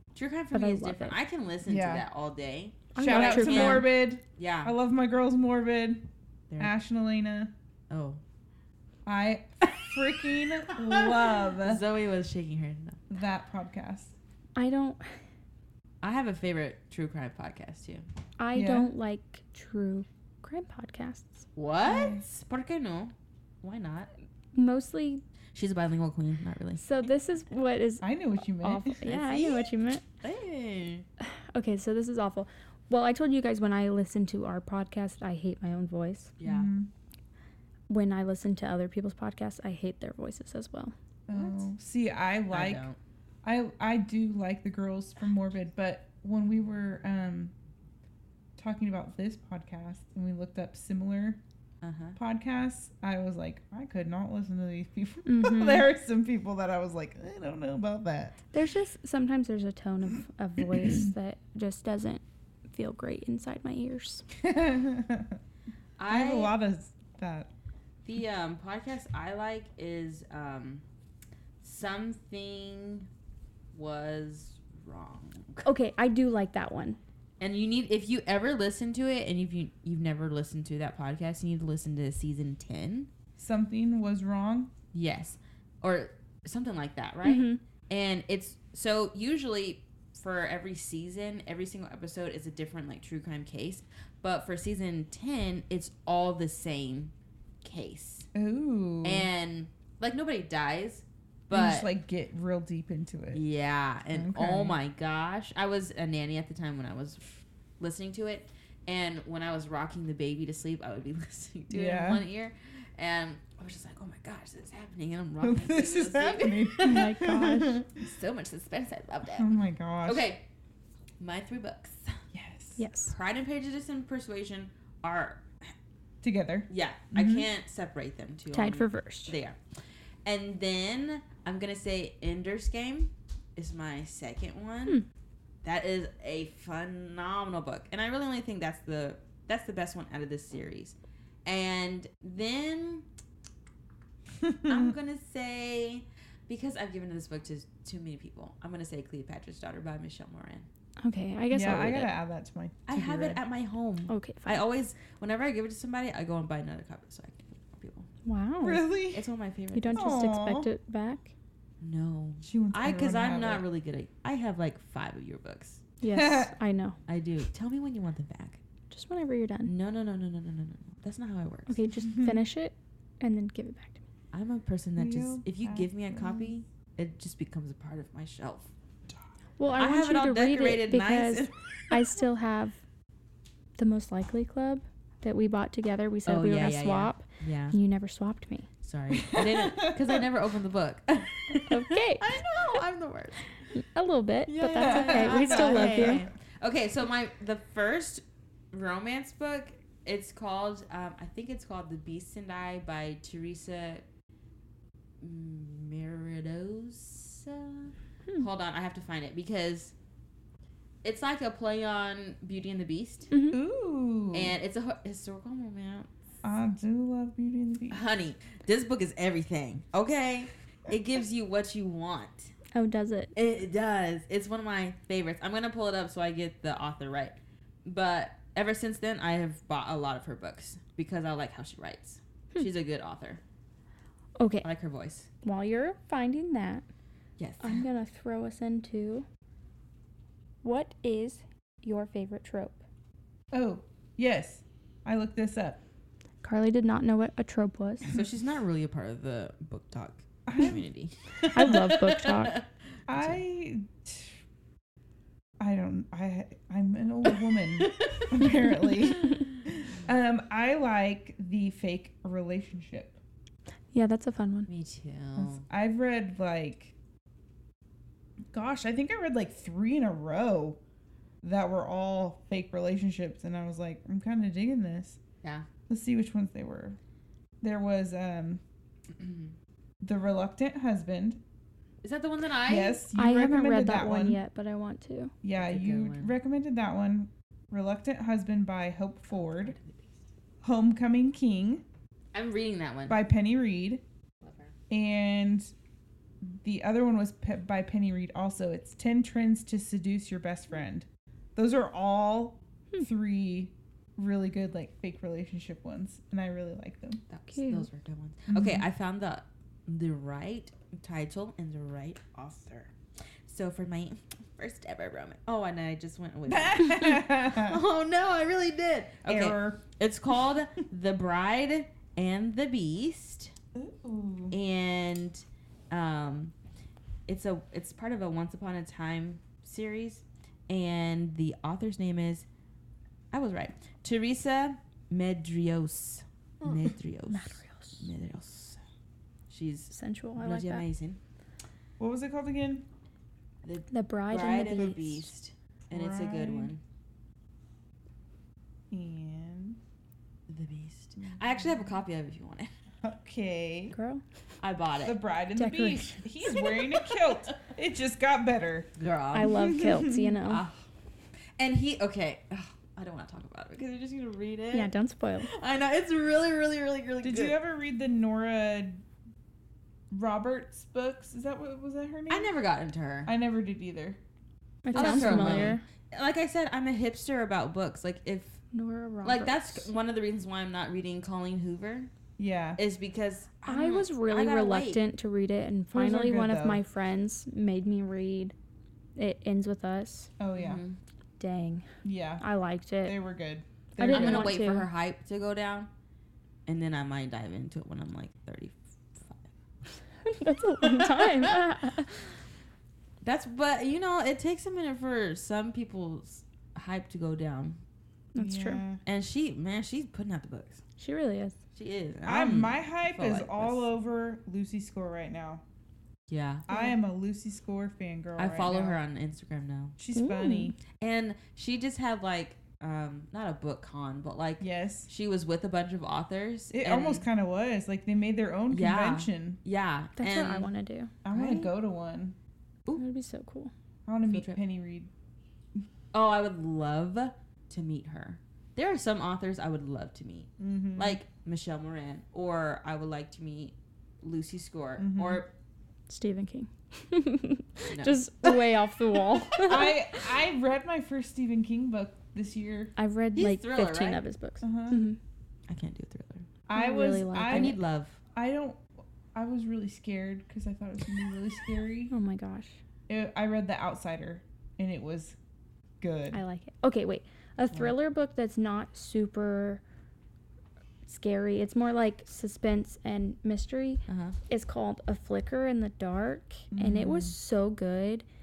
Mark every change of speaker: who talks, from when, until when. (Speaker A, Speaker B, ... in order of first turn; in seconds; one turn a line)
Speaker A: 0.1-4.7
Speaker B: 0.5-1.1
Speaker C: 1.6-2.1
Speaker B: 2.9-3.9
Speaker C: 3.0-6.1
Speaker C: 6.6-7.5
Speaker A: 7.9-8.2
Speaker C: 9.1-11.8
Speaker A: 9.7-9.9
Speaker A: 10.7-13.0
Speaker C: 13.1-14.1
Speaker B: 14.6-15.2
Speaker A: 16.0-18.1
Speaker B: 18.4-21.5
Speaker C: 18.5-18.9
Speaker A: 21.6-24.1
Speaker C: 21.8-22.2
Speaker B: 24.6-25.2
Speaker A: 25.5-27.1
Speaker B: 26.8-28.1
Speaker C: 28.0-29.0
Speaker B: 28.6-30.0
Speaker A: 29.1-29.7
Speaker A: 30.2-31.1
Speaker B: 31.2-36.3
Speaker A: 36.4-36.7
Speaker C: 36.4-36.9
Speaker B: 37.9-40.9
Speaker C: 41.3-42.9
Speaker A: 41.3-41.7
Speaker A: 42.5-43.0
Speaker C: 43.4-47.5
Speaker C: 48.6-51.4
Speaker A: 51.8-52.2
Speaker C: 52.1-58.4
Speaker B: 55.3-55.9
Speaker B: 58.5-64.2
Speaker C: 64.4-65.4
Speaker A: 66.0-66.5
Speaker C: 66.1-67.5
Speaker A: 68.0-70.8
Speaker A: 71.6-73.1
Speaker A: 73.7-75.7
Speaker B: 75.6-77.0
Speaker A: 77.4-83.1
Speaker C: 83.4-84.7
Speaker A: 84.9-97.1
Speaker B: 87.2-87.6
Speaker A: 97.6-98.3
Speaker C: 98.3-99.3
Speaker A: 99.0-101.9
Speaker C: 101.5-103.4
Speaker A: 103.3-119.5
Speaker C: 104.1-104.8
Speaker C: 111.7-112.2
Speaker C: 115.4-117.9
Speaker B: 116.8-117.8
Speaker C: 119.3-120.3
Speaker A: 120.0-120.4
Speaker A: 121.2-122.2
Speaker C: 122.3-122.8
Speaker B: 122.8-123.1
Speaker A: 123.1-125.4
Speaker C: 126.2-127.4
Speaker A: 126.7-129.6
Speaker B: 128.5-129.3
Speaker A: 130.2-135.0
Speaker A: 135.6-143.1
Speaker C: 144.4-144.9
Speaker A: 144.6-150.7
Speaker B: 151.0-152.1
Speaker C: 151.5-153.4
Speaker A: 152.9-158.1
Speaker B: 154.1-154.6
Speaker B: 158.2-158.9
Speaker C: 158.6-159.3
Speaker A: 159.1-160.3
Speaker B: 159.7-161.3
Speaker C: 159.9-160.7
Speaker A: 161.8-165.8
Speaker C: 162.4-163.6
Speaker B: 166.0-167.0
Speaker C: 166.1-166.5
Speaker A: 167.1-168.6
Speaker B: 168.9-169.7
Speaker A: 169.6-171.8
Speaker B: 171.7-174.0
Speaker A: 174.3-178.7
Speaker C: 175.0-176.5
Speaker B: 179.6-182.8
Speaker A: 179.8-181.5
Speaker B: 183.8-188.7
Speaker A: 186.3-187.8
Speaker A: 188.8-193.4
Speaker C: 189.1-190.2
Speaker B: 191.7-192.3
Speaker B: 193.7-196.2
Speaker A: 194.5-204.1
Speaker C: 194.8-196.3
Speaker A: 205.2-209.9
Speaker A: 211.0-213.3
Speaker B: 213.3-213.6
Speaker C: 213.5-214.6
Speaker A: 214.3-216.1
Speaker C: 216.4-218.0
Speaker A: 217.9-222.5
Speaker B: 222.7-223.3
Speaker A: 223.3-233.4
Speaker B: 234.4-234.7
Speaker A: 234.6-235.3
Speaker B: 235.4-236.8
Speaker A: 237.4-237.8
Speaker B: 237.6-239.3
Speaker B: 240.6-242.8
Speaker C: 243.5-245.8
Speaker B: 246.4-248.1
Speaker A: 248.1-253.4
Speaker C: 250.5-250.8
Speaker B: 251.5-252.6
Speaker C: 253.1-254.4
Speaker C: 255.6-263.2
Speaker A: 257.8-259.3
Speaker B: 263.9-264.7
Speaker A: 264.7-265.6
Speaker C: 265.4-266.9
Speaker C: 268.5-270.8
Speaker C: 271.4-275.2
Speaker C: 275.9-277.0
Speaker C: 277.6-278.6
Speaker A: 279.1-279.5
Speaker C: 280.0-281.4
Speaker A: 282.0-283.0
Speaker C: 282.6-284.4
Speaker B: 283.1-285.3
Speaker C: 285.4-289.8
Speaker A: 285.5-286.3
Speaker A: 289.3-290.1
Speaker C: 290.6-291.8
Speaker A: 292.3-293.2
Speaker C: 293.1-294.0
Speaker A: 294.4-294.7
Speaker C: 294.9-295.7
Speaker C: 296.4-307.2
Speaker A: 307.3-312.9
Speaker B: 307.5-307.9
Speaker C: 308.5-308.8
Speaker A: 313.4-323.5
Speaker C: 316.5-317.8
Speaker C: 319.3-319.8
Speaker C: 323.8-324.6
Speaker A: 324.5-326.5
Speaker A: 327.3-332.5
Speaker A: 333.3-338.8
Speaker B: 337.3-338.1
Speaker A: 339.5-341.2
Speaker B: 339.9-340.8
Speaker C: 342.0-342.9
Speaker A: 343.6-346.8
Speaker B: 343.9-345.3
Speaker C: 345.9-346.7
Speaker C: 348.9-349.8
Speaker A: 350.5-352.7
Speaker C: 351.2-351.8
Speaker C: 353.0-353.9
Speaker B: 353.9-354.2
Speaker A: 354.6-355.2
Speaker C: 355.0-358.9
Speaker B: 355.6-356.3
Speaker A: 356.7-357.6
Speaker A: 359.0-359.9
Speaker B: 359.3-360.6
Speaker C: 359.4-360.3
Speaker A: 360.4-360.8
Speaker A: 361.6-364.9
Speaker B: 364.7-365.5
Speaker A: 365.4-367.6
Speaker C: 367.2-369.0
Speaker C: 370.1-372.5
Speaker A: 372.3-373.3
Speaker C: 373.3-374.2
Speaker B: 374.9-375.8
Speaker C: 374.9-375.8
Speaker A: 374.9-378.6
Speaker B: 378.7-379.9
Speaker A: 379.2-382.1
Speaker C: 382.4-382.8
Speaker A: 382.8-385.0
Speaker B: 383.6-388.5
Speaker C: 385.9-386.8
Speaker B: 389.1-390.3
Speaker C: 390.4-390.8
Speaker A: 390.6-391.0
Speaker B: 391.4-391.9
Speaker C: 392.0-392.4
Speaker B: 392.4-393.2
Speaker C: 393.1-394.6
Speaker B: 394.0-394.9
Speaker A: 394.1-395.9
Speaker A: 396.7-399.5
Speaker B: 400.2-402.2
Speaker A: 400.8-401.6
Speaker A: 403.2-407.8
Speaker B: 408.4-408.8
Speaker C: 408.4-409.0
Speaker A: 409.1-410.8
Speaker B: 411.0-411.6
Speaker A: 411.8-413.9
Speaker C: 412.2-415.6
Speaker A: 416.3-416.7
Speaker C: 416.7-419.0
Speaker A: 418.4-420.0
Speaker C: 420.0-420.8
Speaker B: 420.1-420.8
Speaker A: 420.9-427.3
Speaker C: 424.6-425.1
Speaker C: 426.7-429.6
Speaker A: 428.7-430.7
Speaker B: 430.2-431.5
Speaker C: 431.2-432.4
Speaker A: 431.4-431.6
Speaker B: 432.9-433.7
Speaker C: 434.1-435.1
Speaker A: 434.3-434.6
Speaker A: 436.1-445.5
Speaker C: 440.6-441.2
Speaker C: 445.0-445.4
Speaker B: 446.1-450.3
Speaker A: 447.9-448.2
Speaker C: 449.6-452.9
Speaker B: 452.9-455.2
Speaker A: 453.4-454.2
Speaker C: 454.6-455.0
Speaker A: 455.7-456.5
Speaker C: 456.7-457.8
Speaker B: 456.8-457.8
Speaker A: 457.4-458.2
Speaker C: 458.3-462.1
Speaker B: 462.1-462.8
Speaker C: 463.1-465.4
Speaker C: 466.0-466.4
Speaker B: 466.3-469.8
Speaker B: 471.1-478.2
Speaker A: 474.1-474.4
Speaker C: 476.7-477.3